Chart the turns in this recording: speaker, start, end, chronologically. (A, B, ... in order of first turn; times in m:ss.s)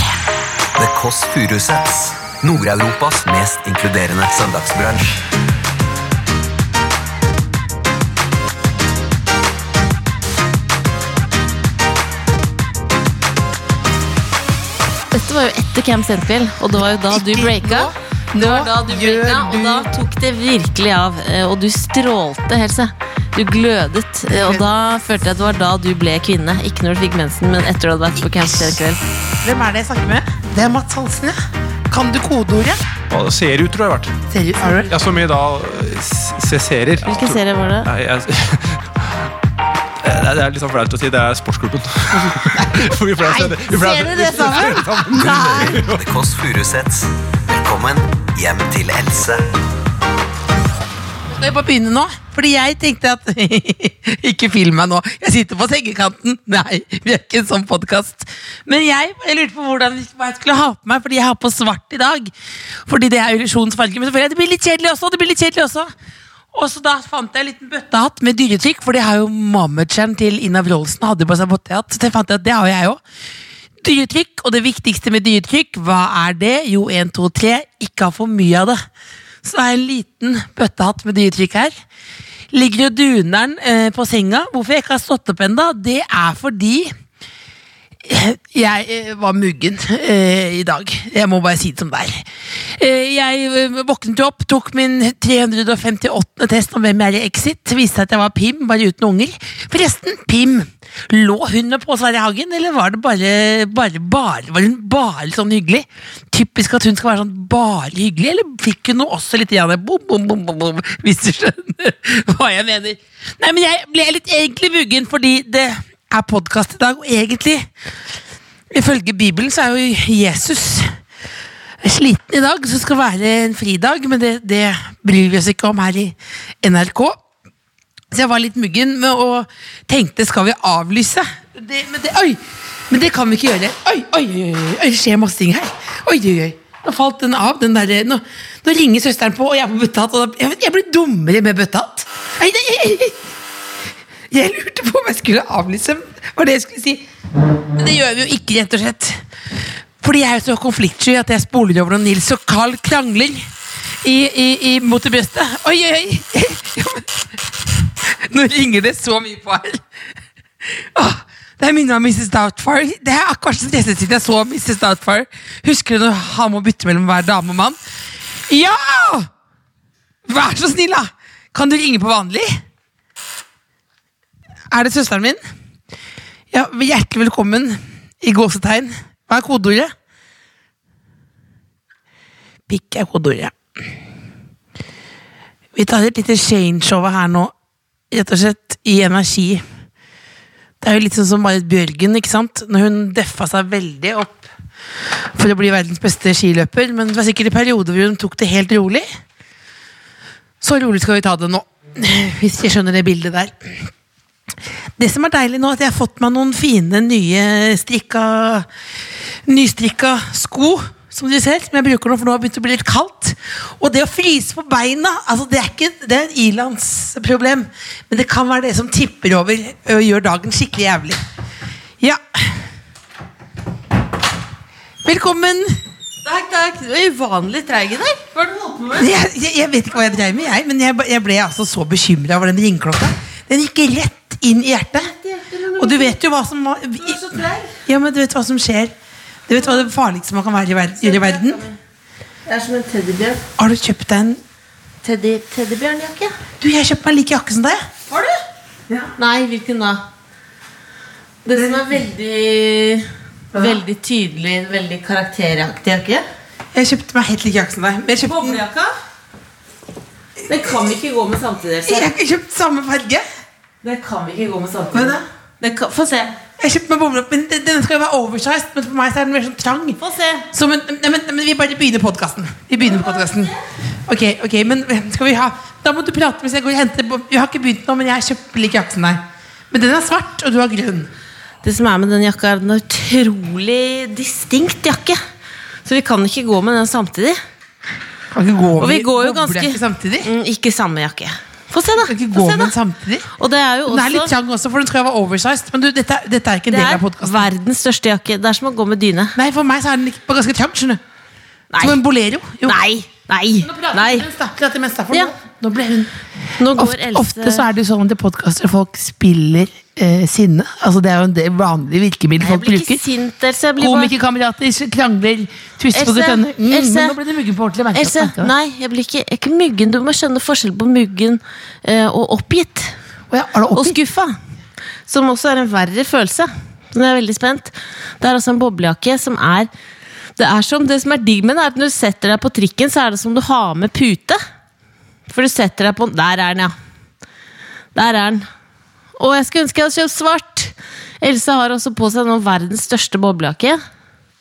0:00.8-0:05.2 A
0:15.1-0:29.0 B
0:17.0-0:19.9 C
0:24.3-0:24.6 C
0:28.2-0:28.8 C
0:29.4-0:31.4 C
0:31.9-0:32.8 C
0:33.1-0:34.1 D
0:34.3-0:34.9 C
0:34.8-0:39.2 D
0:37.0-0:37.9 B
0:40.0-0:46.0 D
0:42.2-0:45.4 C
0:43.7-0:45.6 B
0:45.2-0:49.4 A
0:51.3-1:02.3 C
1:02.9-1:05.9 C
1:06.5-1:13.0 C
1:13.8-1:18.8 C
1:19.4-1:21.7 C
1:22.5-1:26.9 C
1:28.0-1:32.2 C
1:32.8-1:57.7 C
1:58.7-2:00.9 C
2:01.8-2:07.2 C
2:08.1-2:23.3 C
2:24.3-2:27.0 C
2:27.8-2:29.2 C
2:30.0-2:33.4 C
2:34.0-2:37.1 C
2:38.1-2:39.8 C
2:40.7-2:47.8 C
2:48.5-2:49.3 C
2:50.3-2:52.6 C
2:54.7-2:55.4 C
2:56.5-2:59.9 C
3:02.7-3:03.5 C
3:05.7-3:07.5 C
3:08.1-3:09.6 C
3:10.8-3:14.5 C
3:15.3-3:19.0 C
3:20.6-3:23.7 C
3:25.0-3:28.7 C
3:29.5-3:41.2 C
3:42.0-3:42.6 C
3:45.0-3:45.8 C
3:46.2-3:49.1 B
3:49.0-3:55.1 C
3:54.9-3:56.2 B
3:55.8-3:58.9 C
3:57.0-3:57.8 B
3:59.5-4:01.6 C
3:59.6-3:59.9 B
4:01.0-4:01.8 B
4:02.4-4:03.4 B
4:03.6-4:04.4 C
4:05.0-4:06.4 B
4:06.6-4:07.8 C
4:08.1-4:08.4 B
4:09.2-4:10.0 B
4:11.4-4:16.2 B
4:11.6-4:11.8 C
4:13.5-4:13.8 C
4:16.7-4:18.6 C
4:18.2-4:18.9 B
4:20.5-4:22.1 B
4:21.8-4:23.2 C
4:23.8-4:26.4 B
4:24.9-4:25.2 C
4:26.6-4:30.0 C
4:30.0-4:30.4 B
4:30.5-4:33.5 C
4:32.8-4:33.5 B
4:34.1-4:41.1 C
4:41.6-4:45.2 B
4:45.8-4:47.4 B
4:48.3-4:50.3 C
4:48.8-4:52.7 B
4:52.0-4:53.3 C
4:53.4-4:54.3 B
4:53.9-4:57.4 C
4:56.7-4:59.3 B
4:59.4-5:01.0 C
5:01.7-5:02.0 B
5:01.8-5:02.8 C
5:02.6-5:04.3 B
5:03.6-5:06.1 C
5:06.6-5:07.6 B
5:06.8-5:13.0 C
5:12.4-5:14.1 B
5:13.8-5:18.5 C
5:15.9-5:17.2 B
5:17.9-5:23.0 B
5:23.3-5:24.0 C
5:23.7-5:24.4 B
5:25.1-5:29.7 B
5:30.4-5:34.4 B
5:35.3-5:36.7 B
5:37.9-5:38.4 B
5:39.2-5:43.8 B